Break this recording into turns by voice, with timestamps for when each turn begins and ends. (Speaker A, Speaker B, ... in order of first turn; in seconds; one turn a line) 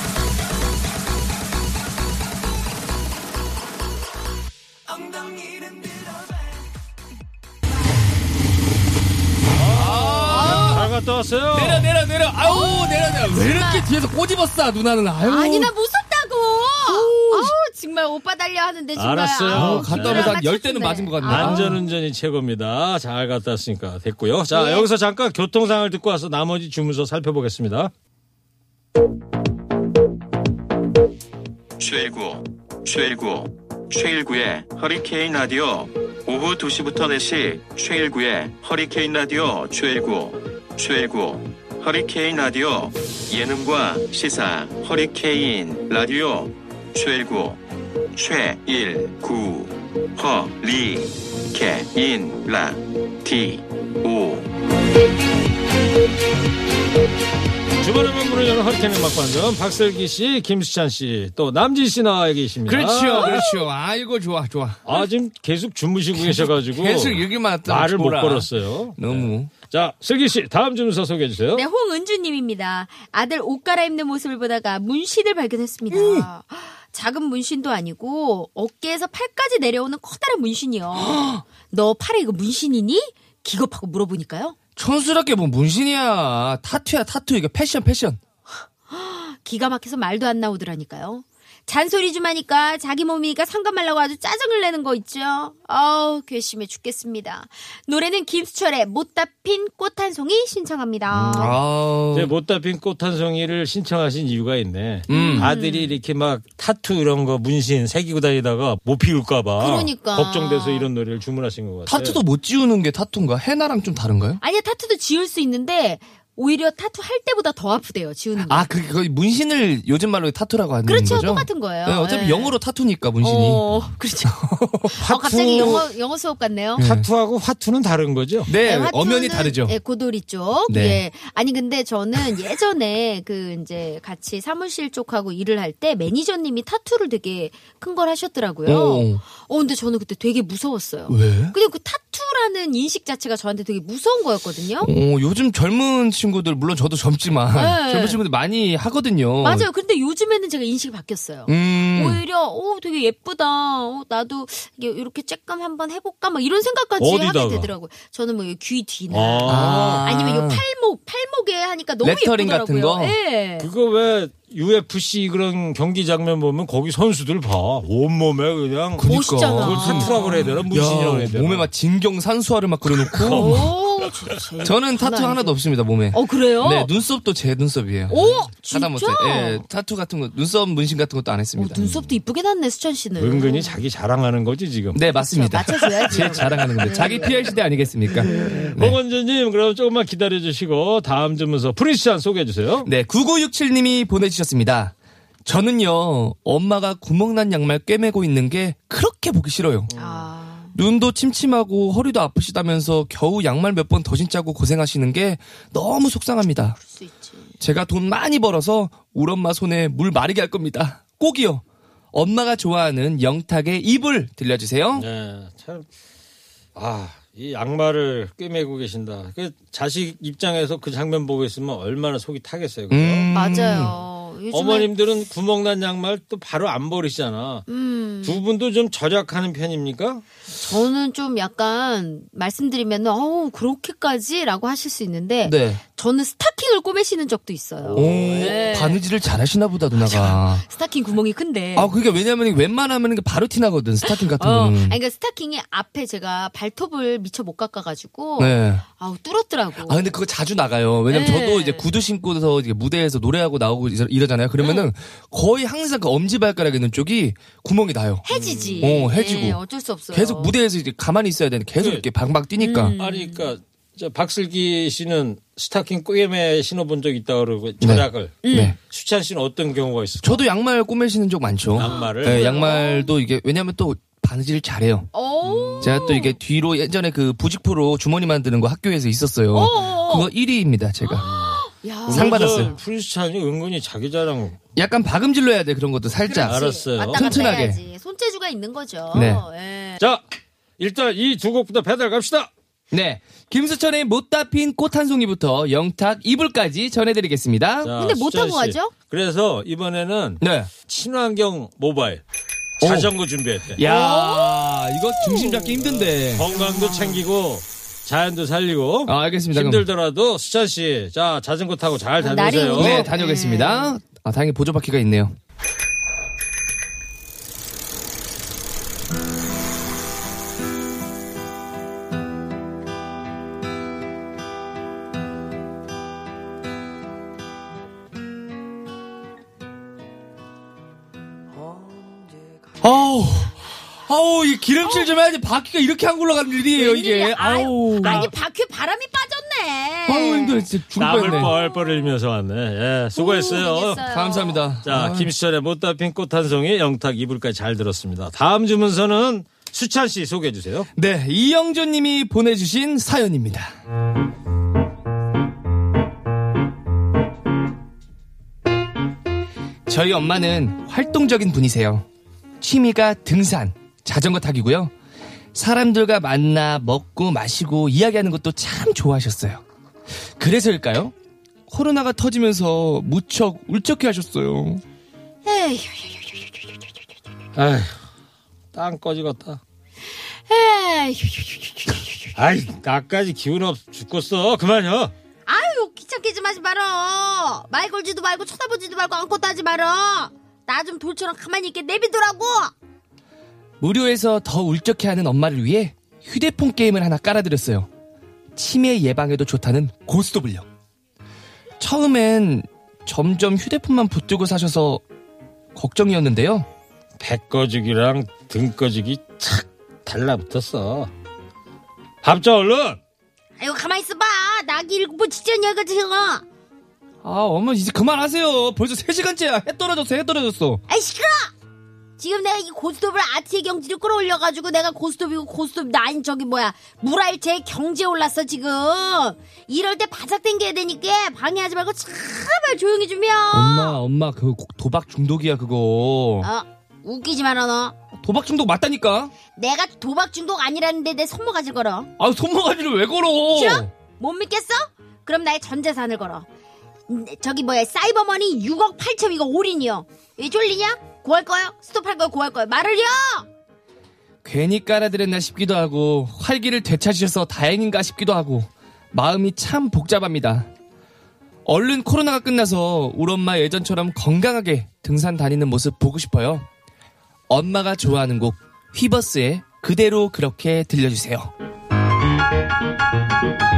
Speaker A: 9.6-11.9
Speaker B: 9.7-10.9
Speaker C: 10.3-10.9
Speaker B: 11.5-15.7
Speaker C: 12.4-13.8
Speaker C: 15.2-21.9
Speaker B: 16.8-17.5
Speaker A: 18.9-20.4
Speaker B: 19.5-21.8
Speaker A: 21.2-27.9
Speaker C: 24.5-24.9
Speaker D: 31.8-47.6
Speaker D: 48.1-54.5
Speaker A: 57.8-63.5
Speaker B: 62.7-64.8
Speaker C: 63.1-63.6
Speaker A: 64.8-71.6
Speaker B: 66.1-69.5
Speaker C: 71.5-84.5
Speaker B: 75.9-76.3
Speaker B: 80.9-81.4
Speaker B: 84.8-88.2
Speaker C: 88.9-101.6
Speaker B: 101.1-102.3
Speaker A: 102.1-112.2
Speaker B: 105.1-105.5
Speaker C: 105.1-106.0
Speaker C: 109.6-110.9
Speaker B: 111.9-114.4
Speaker C: 114.4-118.7
Speaker B: 118.4-123.6
Speaker C: 120.8-122.5
Speaker C: 123.2-124.4
Speaker B: 124.3-125.0
Speaker C: 124.9-126.8
Speaker A: 125.0-125.8
Speaker B: 126.8-127.1
Speaker A: 126.8-128.5
Speaker B: 128.5-129.8
Speaker C: 128.6-144.9
Speaker B: 130.7-131.0
Speaker B: 138.7-139.2
Speaker B: 141.1-141.5
Speaker B: 144.8-149.7
Speaker C: 147.5-148.2
Speaker C: 149.4-163.7
Speaker B: 151.5-152.2
Speaker A: 157.0-157.7
Speaker A: 159.1-160.1
Speaker B: 159.4-160.6
Speaker B: 162.0-163.2
Speaker A: 163.6-171.7
Speaker B: 169.0-173.7
Speaker C: 169.0-170.5
Speaker A: 172.9-174.4
Speaker C: 173.3-175.6
Speaker B: 174.6-178.1
Speaker C: 176.1-176.9
Speaker C: 178.1-179.6
Speaker A: 178.1-178.4
Speaker B: 178.7-181.9
Speaker C: 181.6-183.8
Speaker A: 183.2-185.0
Speaker B: 184.9-189.0
Speaker C: 185.2-187.5
Speaker A: 186.2-186.6
Speaker C: 188.2-188.7
Speaker A: 188.2-192.9
Speaker B: 192.8-194.9
Speaker B: 195.4-199.9
Speaker A: 199.9-200.2
Speaker C: 200.0-200.7
Speaker B: 200.7-206.8
Speaker C: 206.8-207.5
Speaker B: 207.6-215.1
Speaker A: 214.9-215.9
Speaker A: 216.7-223.3
Speaker B: 222.9-223.9
Speaker C: 223.3-224.9
Speaker A: 224.5-227.7
Speaker C: 227.7-228.4
Speaker A: 228.2-230.2
Speaker C: 230.5-239.0
Speaker B: 235.4-235.8
Speaker A: 237.8-238.5
Speaker B: 237.9-240.6
Speaker C: 240.0-241.9
Speaker B: 241.7-245.0
Speaker C: 244.0-250.1
Speaker B: 248.4-248.8
Speaker B: 249.8-258.2
Speaker C: 251.1-251.9
Speaker C: 258.2-260.5
Speaker A: 258.3-258.9
Speaker B: 258.8-263.0
Speaker A: 261.8-262.1
Speaker C: 262.6-263.5
Speaker A: 263.0-270.4
Speaker B: 267.8-268.8
Speaker C: 268.4-268.7
Speaker B: 270.2-275.1
Speaker A: 271.7-272.4
Speaker C: 271.9-273.1
Speaker C: 275.1-276.4
Speaker A: 275.4-276.2
Speaker B: 275.8-281.3
Speaker C: 279.5-280.3
Speaker C: 281.0-282.8
Speaker A: 281.2-284.6
Speaker B: 282.1-282.7
Speaker B: 284.8-287.8
Speaker C: 286.2-290.0
Speaker A: 286.4-287.5
Speaker B: 289.1-289.4
Speaker A: 290.8-292.5
Speaker B: 292.9-297.9
Speaker A: 297.8-302.2
Speaker C: 297.9-298.9
Speaker B: 300.4-300.7
Speaker A: 302.8-303.8
Speaker B: 302.8-303.1
Speaker B: 303.7-306.5
Speaker C: 303.8-304.6
Speaker C: 305.2-305.6
Speaker A: 305.8-313.1
Speaker C: 306.5-307.2
Speaker B: 309.1-309.9
Speaker C: 312.2-313.9
Speaker B: 312.7-315.4
Speaker B: 332.8-338.3
Speaker C: 336.7-340.6
Speaker A: 338.0-338.3
Speaker B: 340.1-341.5
Speaker A: 341.0-344.0
Speaker C: 341.2-341.8
Speaker C: 343.1-344.6
Speaker B: 344.1-345.3
Speaker A: 344.8-350.9
Speaker B: 350.9-353.7
Speaker B: 359.9-362.0
Speaker B: 362.6-364.9
Speaker B: 365.5-369.6
Speaker B: 370.4-371.1
Speaker B: 371.7-374.8
Speaker C: 375.4-376.6
Speaker A: 377.6-378.0
Speaker A: 378.7-379.6
Speaker C: 380.5-382.3
Speaker A: 382.4-385.1
Speaker C: 385.4-392.7
Speaker B: 393.8-397.9
Speaker B: 398.6-400.7
Speaker B: 401.8-405.0
Speaker B: 405.7-406.7
Speaker A: 407.2-411.1
Speaker A: 412.2-413.0
Speaker C: 413.6-416.4
Speaker B: 417.2-420.8
Speaker C: 420.9-421.5
Speaker C: 422.2-434.0
Speaker B: 433.5-436.5
Speaker C: 436.4-437.9
Speaker B: 438.1-439.3
Speaker C: 439.6-442.1
Speaker B: 442.2-443.9
Speaker C: 443.5-446.4
Speaker C: 447.1-453.5
Speaker B: 454.4-460.7
Speaker B: 461.6-466.6
Speaker B: 467.5-471.5